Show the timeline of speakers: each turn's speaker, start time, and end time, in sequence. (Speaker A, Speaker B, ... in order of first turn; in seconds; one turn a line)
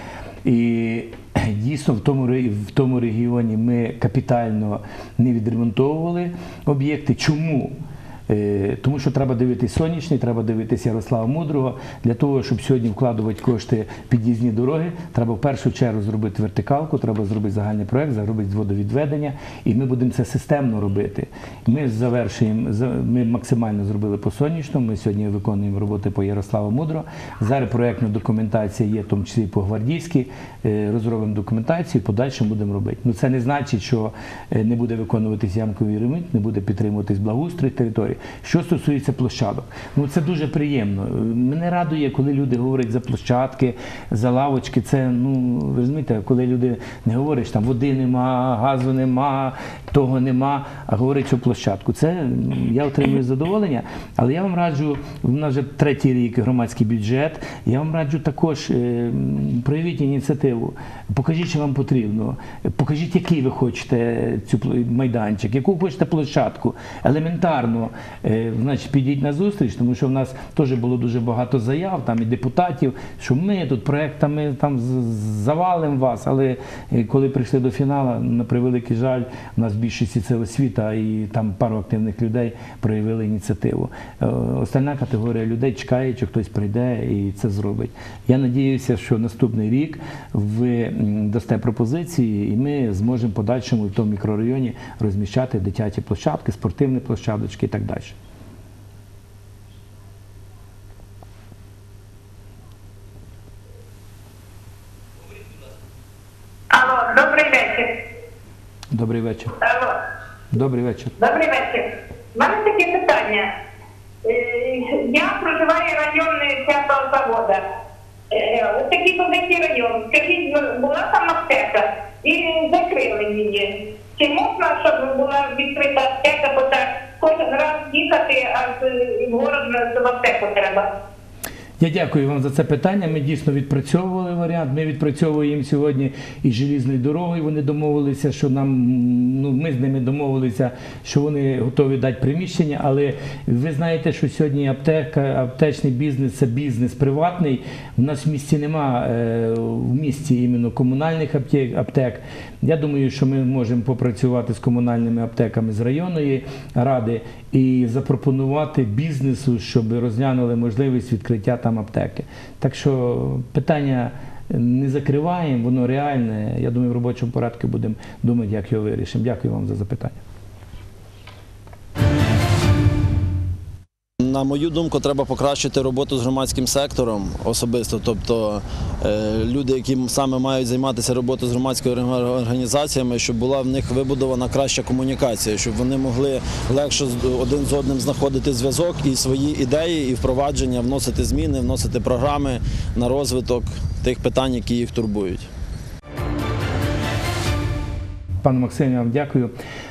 Speaker A: 0.4-98.2
Speaker B: 106.7-107.9
Speaker A: 108.9-109.5
Speaker B: 109.6-109.9
Speaker A: 110.5-111.1
Speaker B: 111.2-113.5
Speaker B: 114.2-117.6
Speaker B: 118.3-130.9
Speaker A: 131.8-170.2
Speaker C: 174.2-195.5
Speaker A: 198.4-199.5